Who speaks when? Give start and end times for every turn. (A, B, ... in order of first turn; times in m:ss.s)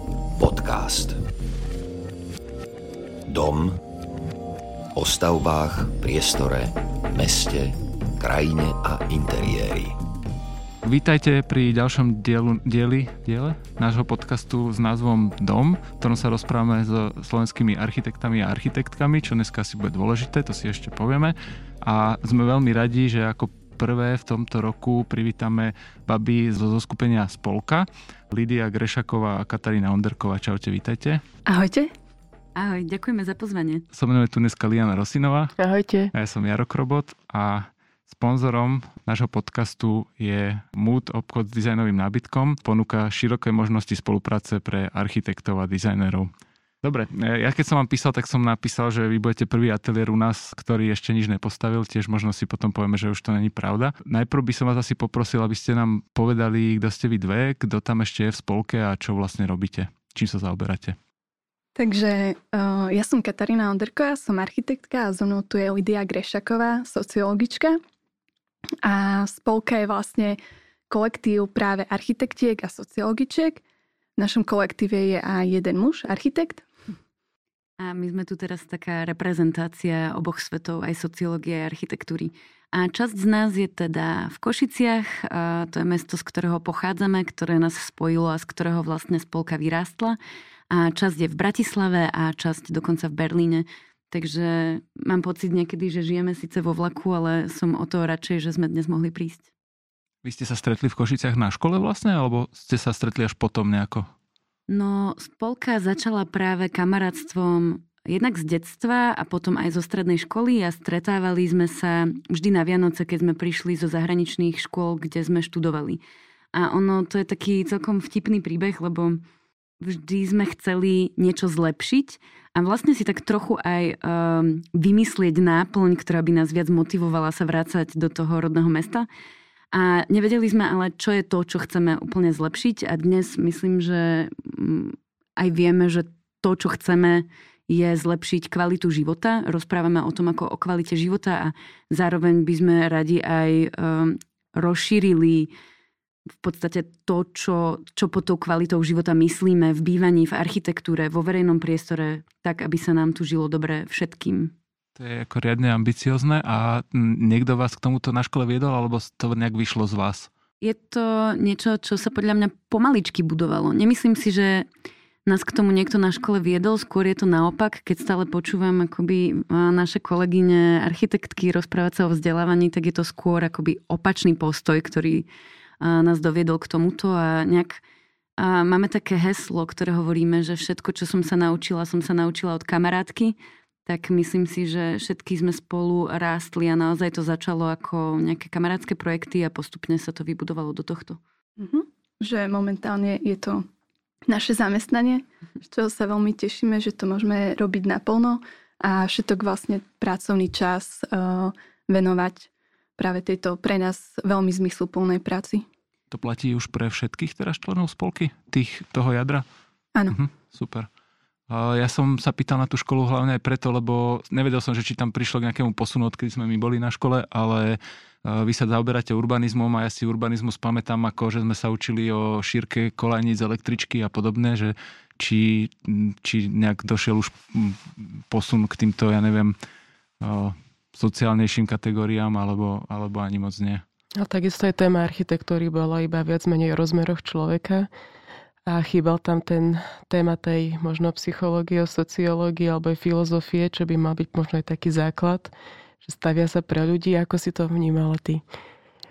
0:00.4-0:01.2 A
0:03.3-0:03.8 A
0:05.0-0:10.0 A
0:10.8-0:31.2 B
0:31.5-0:31.9 C
0:32.6-0:33.8 D
0:33.9-0:35.5 B
0:35.6-0:36.1 E
0:36.2-0:46.3 B
0:46.8-1:01.0 B
1:01.8-1:07.8 C
1:08.8-1:10.4 C
1:10.9-1:13.6 C
1:14.2-1:16.6 C
1:17.8-1:30.2 D
1:30.7-1:39.5 D
1:40.2-1:44.1 B
1:44.7-1:56.0 D
1:56.5-1:59.2 D
1:59.8-2:09.1 D
2:09.7-2:25.5 D
2:26.4-2:34.5 D
2:35.0-2:40.3 B
2:40.6-2:44.7 D
2:45.3-2:55.3 D
2:55.8-2:57.8 D
2:58.4-3:11.2 D
3:11.6-3:13.7 C
3:14.3-3:25.6 C
3:26.1-3:29.4 B
3:30.1-3:30.9 B
3:31.5-3:49.6 B
3:50.2-3:53.8 B
3:54.2-3:57.9 E
3:58.7-4:08.4 E